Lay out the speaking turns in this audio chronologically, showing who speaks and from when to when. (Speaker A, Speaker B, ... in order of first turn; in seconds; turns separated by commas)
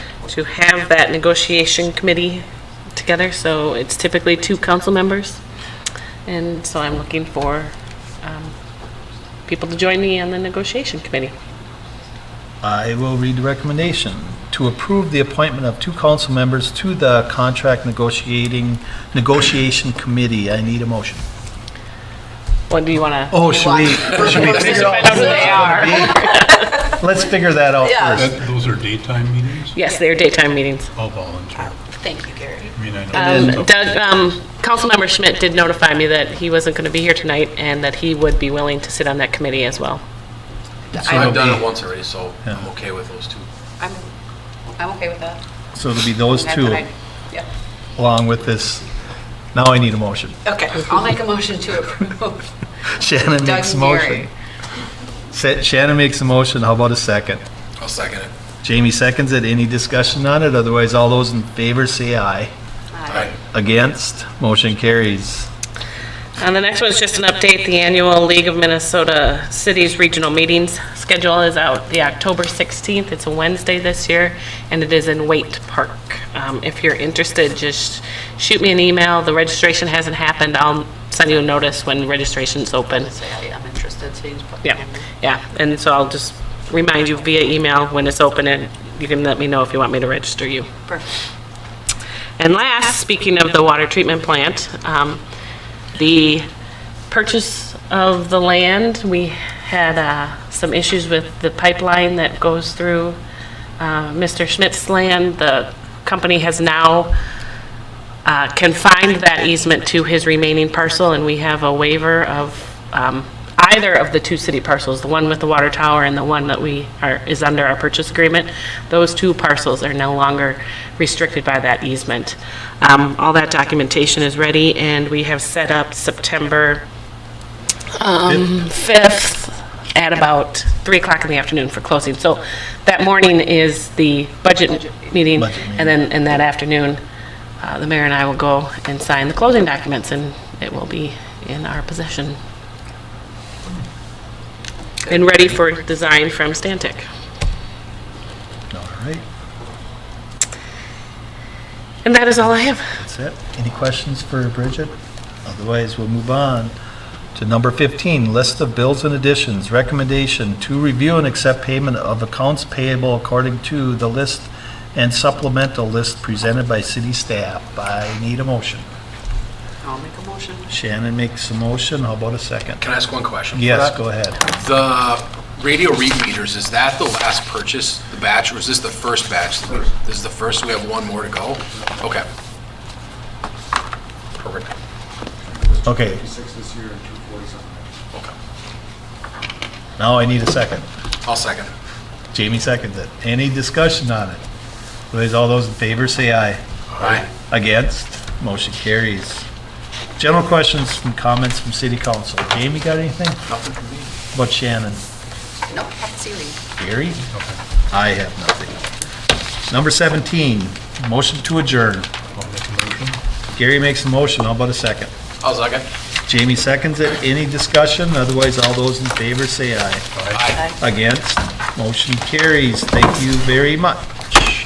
Speaker A: 0.3-2.4, Speaker A: 3.0-5.4, Speaker A: 6.3-8.5, Speaker A: 9.5-11.3, Speaker B: 12.6-21.2, Speaker A: 22.7-23.4, Speaker B: 23.3-28.4, Speaker C: 23.4-26.9, Speaker A: 24.2-26.7, Speaker C: 27.8-28.3, Speaker D: 28.1-29.8, Speaker A: 29.8-30.9, Speaker D: 30.9-31.8, Speaker C: 31.7-32.8, Speaker D: 32.8-33.9, Speaker A: 33.1-40.0, Speaker C: 40.9-41.6, Speaker E: 41.0-43.5, Speaker B: 41.0-41.7, Speaker C: 44.8-45.4, Speaker B: 45.8-46.9, Speaker C: 46.3-47.5, Speaker B: 48.0-48.9, Speaker B: 49.5-50.4, Speaker C: 50.5-52.5, Speaker B: 52.8-54.3, Speaker C: 53.4-54.2, Speaker B: 55.3-57.4, Speaker E: 57.8-58.3, Speaker B: 58.6-62.5, Speaker C: 63.0-63.3, Speaker B: 63.3-65.5, Speaker A: 66.4-83.1, Speaker C: 83.0-85.0, Speaker A: 84.6-90.7, Speaker A: 92.4-95.2, Speaker A: 95.9-96.5, Speaker A: 97.1-103.2, Speaker A: 103.8-107.1, Speaker A: 108.2-126.8, Speaker A: 127.9-137.0, Speaker B: 135.4-135.9, Speaker A: 137.6-142.4, Speaker A: 145.0-147.1, Speaker B: 148.7-149.2, Speaker A: 152.0-152.9, Speaker B: 152.8-156.7, Speaker B: 157.3-168.9, Speaker C: 169.8-170.7, Speaker B: 170.7-172.8, Speaker E: 172.8-182.3, Speaker B: 173.5-174.4, Speaker E: 184.4-184.8, Speaker F: 185.5-187.9, Speaker B: 185.8-186.2, Speaker B: 190.0-190.9, Speaker E: 191.2-191.7, Speaker B: 192.3-194.4, Speaker B: 195.1-199.4, Speaker E: 197.0-197.3, Speaker B: 200.2-203.4, Speaker E: 203.5-204.1, Speaker B: 204.3-205.0, Speaker C: 205.7-206.6, Speaker B: 206.8-207.2, Speaker D: 207.3-207.6, Speaker B: 207.9-208.8, Speaker B: 209.7-212.1, Speaker D: 212.3-213.2, Speaker B: 213.5-215.1, Speaker E: 215.4-215.9, Speaker B: 216.3-220.1, Speaker D: 220.2-220.5, Speaker E: 220.3-220.8, Speaker B: 220.8-224.1